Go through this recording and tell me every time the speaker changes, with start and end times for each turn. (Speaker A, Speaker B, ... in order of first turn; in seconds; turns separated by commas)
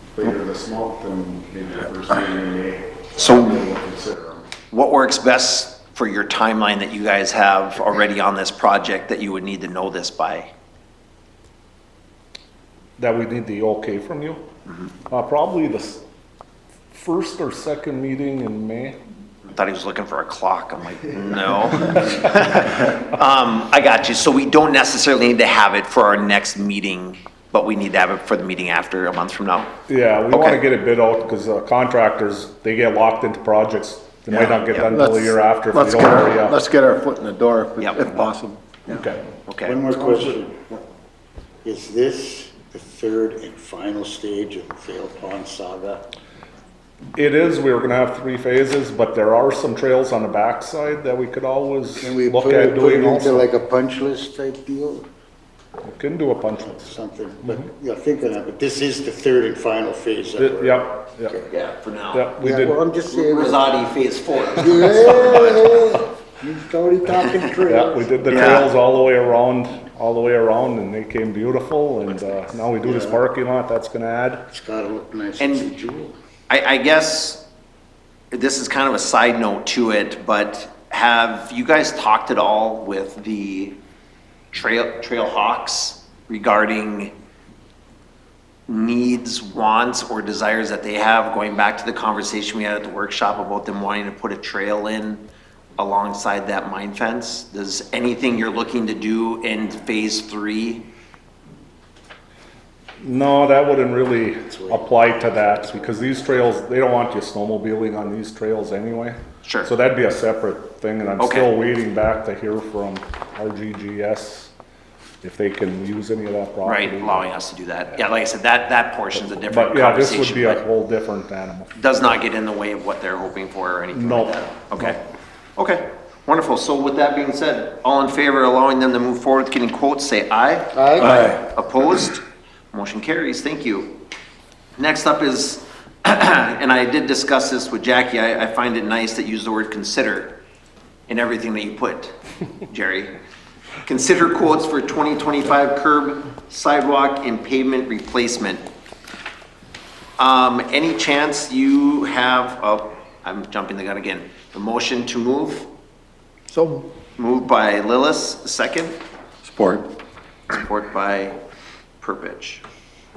Speaker A: 0.1-4.4, Speaker B: 3.2-3.6, Speaker B: 4.7-10.5, Speaker C: 13.0-14.4, Speaker C: 15.1-16.0, Speaker C: 16.9-19.0, Speaker B: 19.5-29.8, Speaker C: 29.9-36.6, Speaker B: 30.3-30.6, Speaker D: 34.3-39.0, Speaker B: 34.4-34.9, Speaker B: 37.8-38.3, Speaker C: 38.9-39.2, Speaker B: 39.5-39.8, Speaker E: 39.6-40.6, Speaker C: 40.0-40.3, Speaker E: 41.6-46.0, Speaker C: 47.2-53.5, Speaker E: 52.0-55.0, Speaker C: 55.8-56.9, Speaker E: 56.7-61.5, Speaker C: 60.4-61.4, Speaker B: 61.5-62.3, Speaker C: 62.1-62.8, Speaker E: 62.4-63.6, Speaker B: 63.1-65.9, Speaker E: 64.6-68.3, Speaker C: 67.7-74.5, Speaker B: 68.3-68.7, Speaker E: 72.8-73.2, Speaker E: 74.5-76.1, Speaker B: 75.4-75.7, Speaker B: 76.5-77.4, Speaker B: 78.3-83.8, Speaker B: 84.5-87.1, Speaker B: 88.7-95.3, Speaker B: 95.8-100.9, Speaker C: 103.0-114.5, Speaker E: 104.5-106.1, Speaker B: 109.5-109.7, Speaker B: 111.2-111.5, Speaker C: 115.2-117.3, Speaker B: 116.6-120.6, Speaker C: 119.5-121.7, Speaker B: 121.8-125.0, Speaker C: 123.9-124.8, Speaker B: 125.6-134.0, Speaker E: 130.7-131.2, Speaker D: 131.0-131.4, Speaker B: 134.8-140.4, Speaker B: 141.1-142.2, Speaker B: 142.7-143.2, Speaker B: 143.8-148.6, Speaker B: 150.2-155.7, Speaker D: 156.5-156.9, Speaker B: 157.2-159.0, Speaker D: 159.4-159.9, Speaker B: 160.5-161.4, Speaker B: 162.0-162.6